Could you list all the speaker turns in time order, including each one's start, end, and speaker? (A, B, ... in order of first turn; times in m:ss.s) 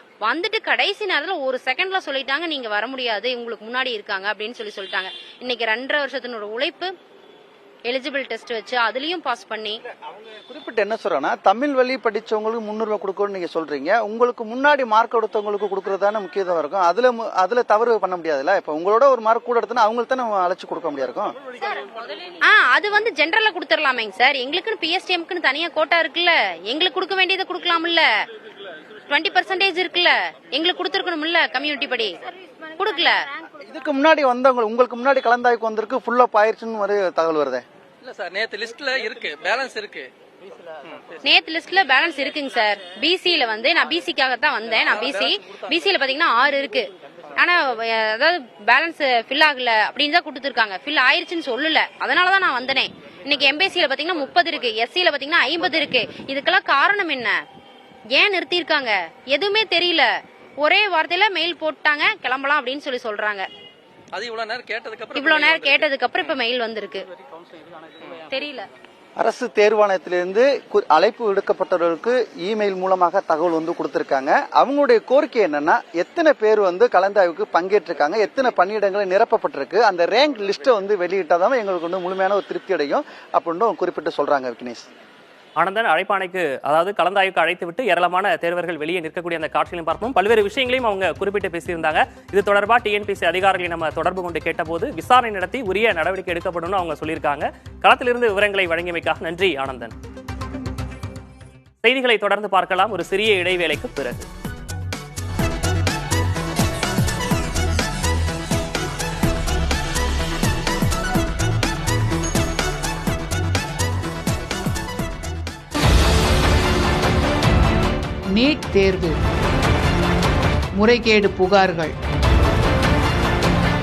0:00.2-0:06.9 A
0:07.9-0:09.8 A
0:10.3-0:21.4 B
0:22.4-0:28.0 A
0:29.1-0:32.1 A
0:32.8-0:33.2 A
0:33.6-0:37.6 B
0:38.0-0:40.1 C
0:41.2-0:57.3 A
0:44.9-0:45.6 C
0:58.1-1:00.1 A
1:00.6-1:03.5 A
1:04.1-1:05.9 C
1:05.1-1:07.0 A
1:08.3-1:08.7 A
1:09.2-1:24.8 B
1:25.6-1:39.9 D
1:41.8-1:44.3 D
1:58.3-1:59.2 E
2:00.8-2:02.0 E